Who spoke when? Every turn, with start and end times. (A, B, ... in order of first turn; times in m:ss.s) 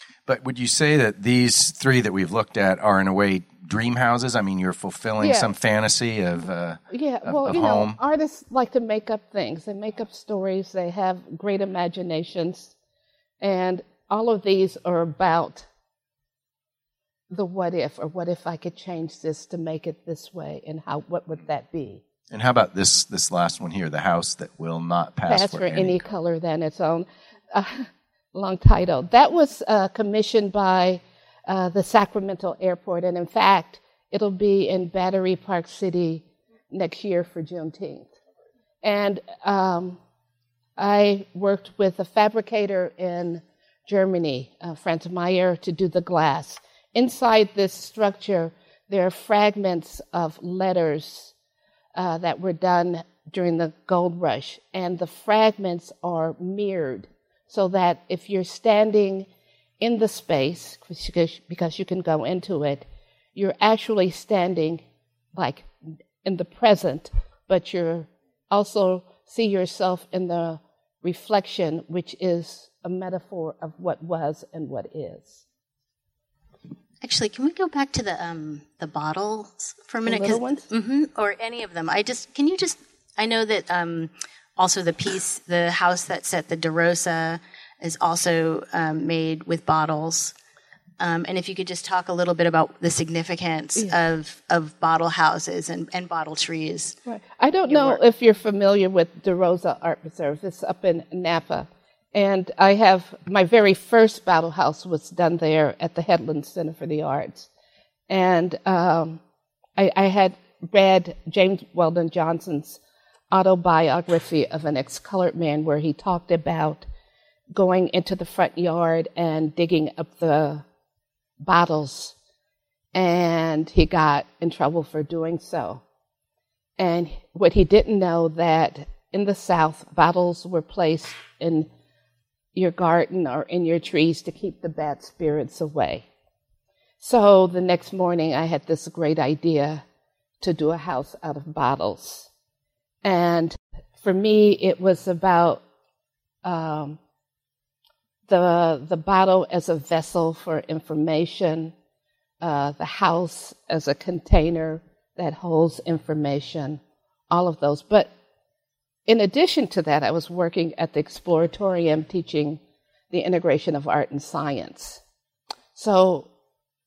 0:00.2-0:08.0 A
0:05.2-0:05.5 B
0:06.9-0:12.7 B
0:13.4-0:15.7 B
0:17.3-0:22.0 B
0:22.3-0:26.0 A
0:25.3-0:38.1 B
0:38.8-0:40.0 B
0:40.8-0:51.3 B
0:51.9-0:59.3 B
0:59.8-1:02.8 B
1:03.4-1:04.8 B
1:05.3-1:05.7 B
1:06.2-1:15.4 B
1:17.0-1:30.3 C
1:20.0-1:20.6 B
1:31.0-1:37.0 C
1:37.0-1:47.5 B
1:37.7-1:38.0 C
1:48.1-1:49.2 B
1:49.8-1:52.8 B
1:53.3-1:56.8 B
1:57.5-2:00.6 B
2:01.4-2:02.1 B
2:02.9-2:05.8 B
2:06.8-2:11.7 B
2:12.5-2:16.0 B
2:17.0-2:19.8 B
2:20.4-2:22.3 B
2:23.0-2:25.6 B
2:26.4-2:27.0 B
2:28.3-2:31.7 B
2:32.4-2:38.1 B
2:39.1-2:42.6 B
2:43.1-2:45.0 B
2:45.7-2:46.3 B